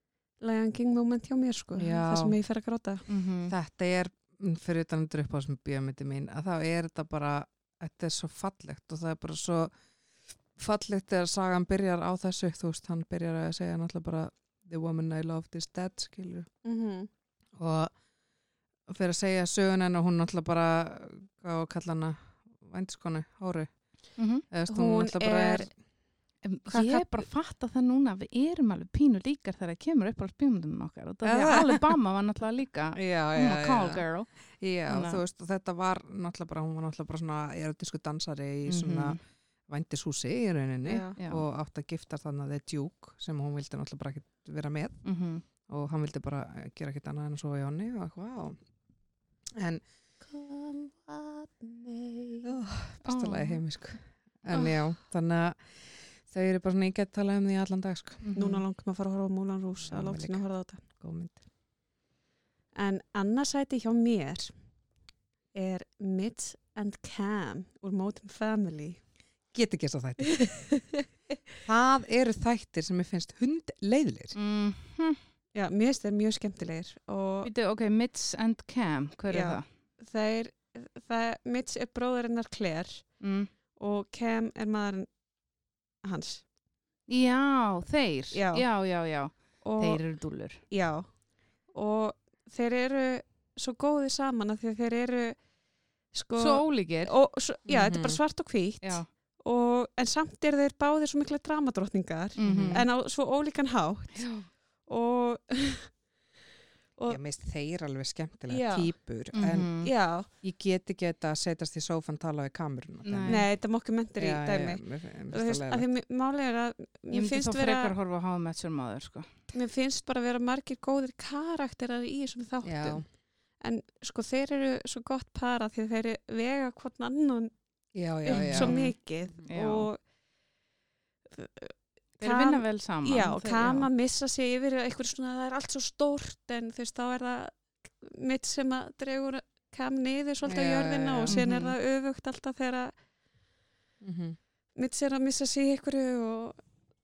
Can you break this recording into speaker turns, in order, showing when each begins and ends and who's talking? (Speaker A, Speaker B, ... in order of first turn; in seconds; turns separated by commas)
Speaker A: 0.4-3.0, Speaker B: 1.8-2.4, Speaker C: 3.1-3.5, Speaker B: 3.5-9.7, Speaker B: 10.6-16.5, Speaker A: 16.6-17.1, Speaker B: 17.6-17.9, Speaker B: 18.9-23.7, Speaker C: 24.2-24.4, Speaker B: 24.5-25.7, Speaker A: 24.7-25.7, Speaker C: 26.4-34.3, Speaker A: 26.7-27.1, Speaker B: 31.2-31.8, Speaker B: 33.0-34.0, Speaker B: 34.6-45.0, Speaker C: 34.9-35.2, Speaker C: 38.7-39.2, Speaker A: 40.9-41.2, Speaker C: 41.2-41.5, Speaker C: 45.0-45.5, Speaker B: 45.7-48.6, Speaker B: 49.6-49.8, Speaker A: 50.2-52.5, Speaker B: 52.4-58.3, Speaker C: 53.0-53.6, Speaker C: 58.2-58.6, Speaker A: 58.4-60.8, Speaker B: 59.8-61.4, Speaker A: 62.8-64.5, Speaker A: 65.5-69.0, Speaker B: 69.5-70.5, Speaker A: 70.4-71.0, Speaker B: 71.6-74.4, Speaker C: 74.3-75.2, Speaker A: 75.5-77.5, Speaker C: 77.4-79.7, Speaker A: 79.3-83.0, Speaker C: 83.2-83.5, Speaker A: 83.8-85.1, Speaker A: 86.0-86.4, Speaker C: 87.1-90.6, Speaker A: 88.3-88.7, Speaker A: 89.6-90.0, Speaker A: 90.7-91.1, Speaker A: 91.7-95.4, Speaker A: 96.1-104.3, Speaker C: 96.4-97.2, Speaker B: 97.7-98.2, Speaker C: 98.8-99.1, Speaker C: 102.4-102.9, Speaker B: 102.4-102.8, Speaker C: 104.1-104.5, Speaker A: 104.9-105.9, Speaker B: 107.1-109.8, Speaker A: 108.5-108.9, Speaker C: 109.3-109.9, Speaker A: 109.8-110.3, Speaker B: 110.3-113.4, Speaker C: 113.0-113.5, Speaker A: 113.3-118.0, Speaker B: 114.2-115.9, Speaker C: 117.1-119.4, Speaker A: 119.5-123.0, Speaker B: 122.6-123.0, Speaker A: 123.6-127.5, Speaker B: 128.0-128.9, Speaker A: 128.3-130.0, Speaker C: 128.3-128.8, Speaker C: 129.5-129.9, Speaker A: 131.3-142.9, Speaker C: 132.2-133.9, Speaker B: 140.4-141.4, Speaker C: 141.3-141.7, Speaker B: 144.0-144.4, Speaker A: 144.8-146.6